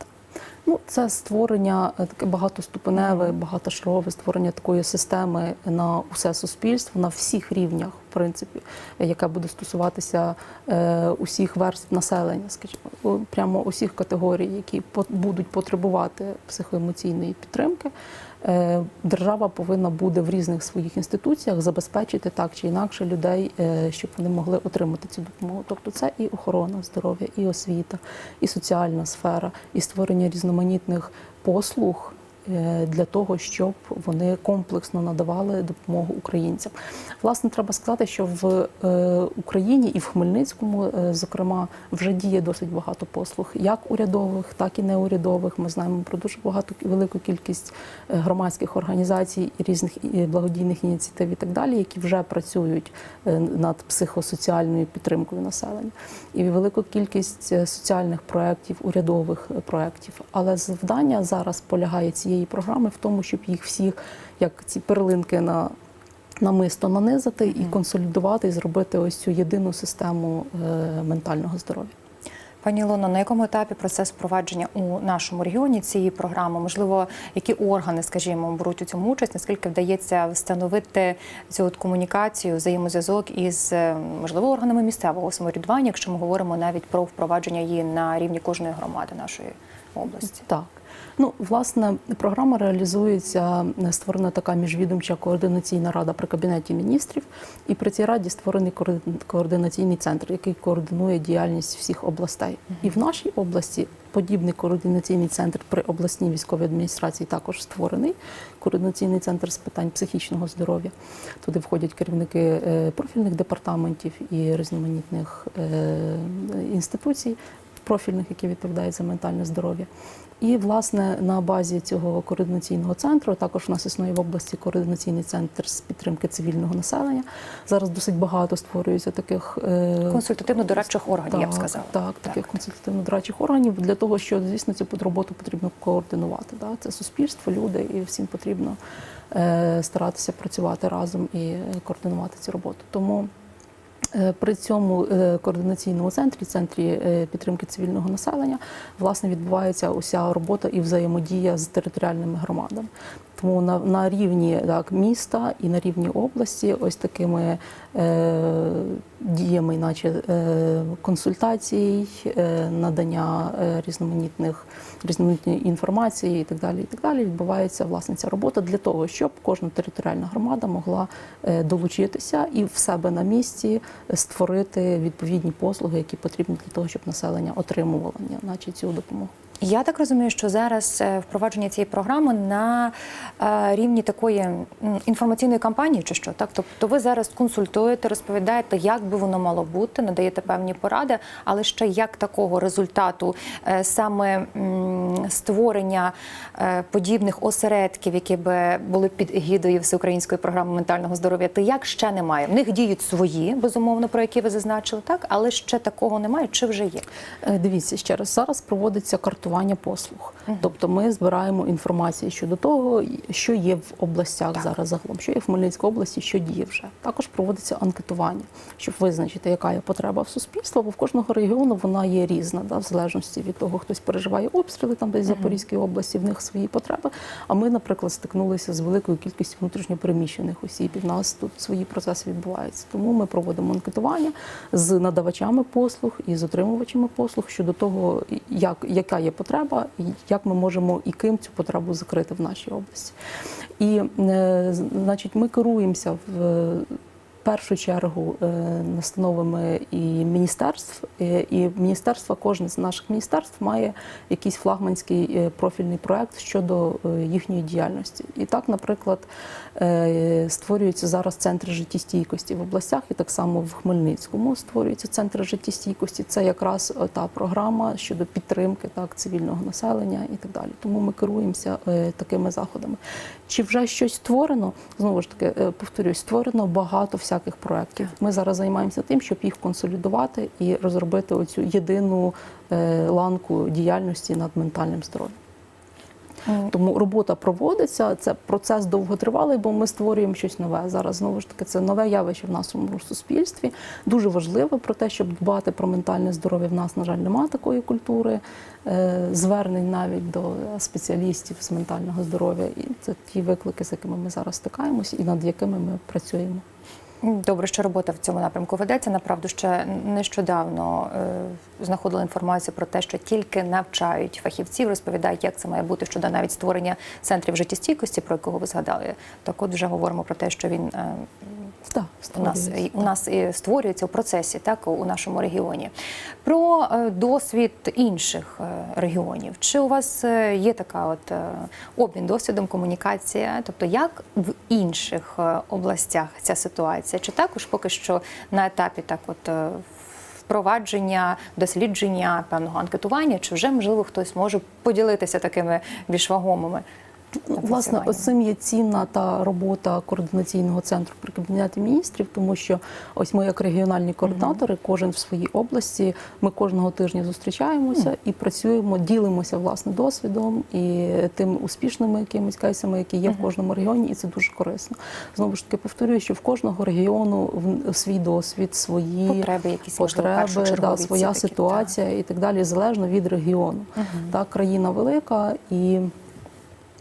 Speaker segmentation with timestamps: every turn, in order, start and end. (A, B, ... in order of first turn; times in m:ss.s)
0:00.6-1:05.7 A
0:03.0-0:03.3 B
1:06.4-1:11.9 A
1:12.6-1:30.4 B
1:30.4-1:59.9 A
2:00.4-2:18.8 A
2:10.1-2:12.5 B
2:19.3-2:23.3 A
2:24.1-2:59.3 A
2:59.6-3:27.0 B
3:27.4-4:03.2 A
4:03.8-4:45.4 A
4:46.5-5:06.6 A
5:07.2-5:21.5 B
5:21.8-5:23.1 A
5:22.4-5:25.9 B
5:26.4-5:39.9 B
5:40.4-5:46.8 B
5:47.4-6:16.1 A
5:47.5-5:48.3 B
6:09.3-6:11.9 B
6:14.0-6:14.3 B